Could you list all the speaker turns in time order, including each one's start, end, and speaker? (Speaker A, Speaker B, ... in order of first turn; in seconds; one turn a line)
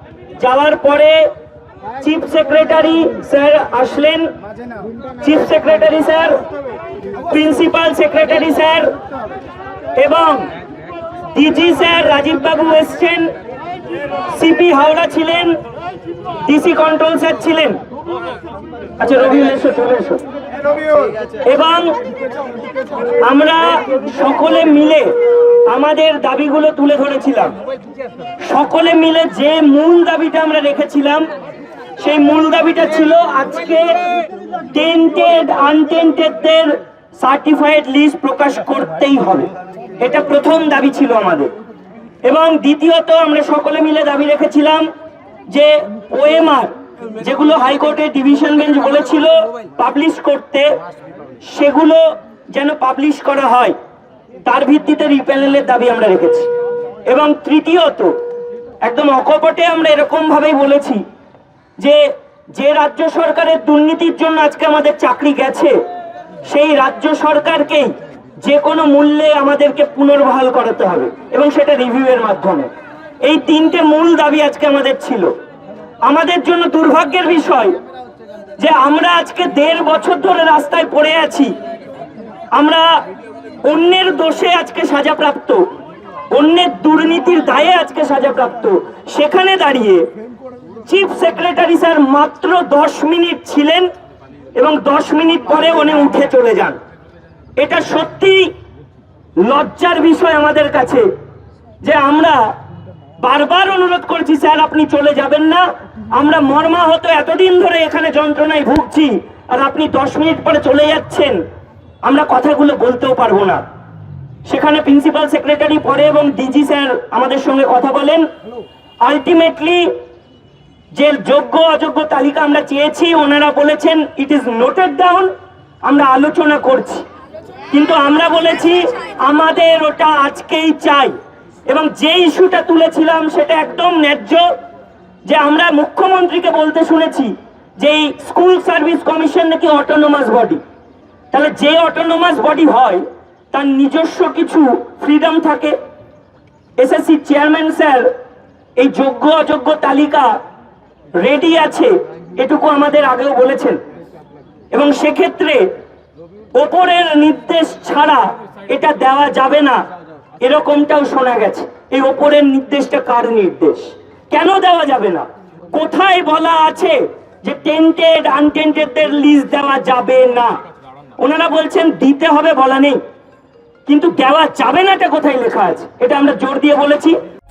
Speaker A: 0.4-1.2
Speaker A: 2.0-4.3
Speaker A: 5.2-6.4
Speaker A: 7.3-8.9
Speaker A: 10.0-10.5
Speaker A: 11.3-13.3
Speaker A: 14.3-15.6
Speaker A: 16.4-17.8
Speaker A: 19.0-20.2
Speaker A: 21.4-21.9
Speaker A: 23.2-25.1
Speaker A: 25.7-27.6
Speaker A: 28.4-31.3
Speaker A: 32.0-33.9
Speaker A: 34.7-41.5
Speaker A: 42.2-44.9
Speaker A: 45.5-50.7
Speaker A: 51.5-53.8
Speaker A: 54.4-56.5
Speaker A: 57.1-58.1
Speaker A: 58.8-61.0
Speaker A: 62.5-65.8
Speaker A: 66.5-72.7
Speaker A: 73.2-75.3
Speaker A: 76.0-77.8
Speaker A: 78.6-81.5
Speaker A: 82.5-82.9
Speaker A: 83.6-85.6
Speaker A: 86.3-90.1
Speaker A: 90.9-93.9
Speaker A: 94.5-96.8
Speaker A: 97.6-98.5
Speaker A: 99.4-101.1
Speaker A: 101.8-102.6
Speaker A: 103.2-111.4
Speaker A: 112.0-113.6
Speaker A: 114.5-118.3
Speaker A: 119.0-119.9
Speaker A: 120.9-125.3
Speaker A: 125.9-127.0
Speaker A: 127.7-131.2
Speaker A: 131.7-134.4
Speaker A: 135.2-140.6
Speaker A: 141.3-145.8
Speaker A: 146.8-148.1
Speaker A: 148.8-150.3
Speaker A: 151.2-153.8
Speaker A: 154.7-155.7
Speaker A: 156.6-159.8
Speaker A: 160.4-170.6
Speaker A: 171.2-173.0
Speaker A: 173.9-177.2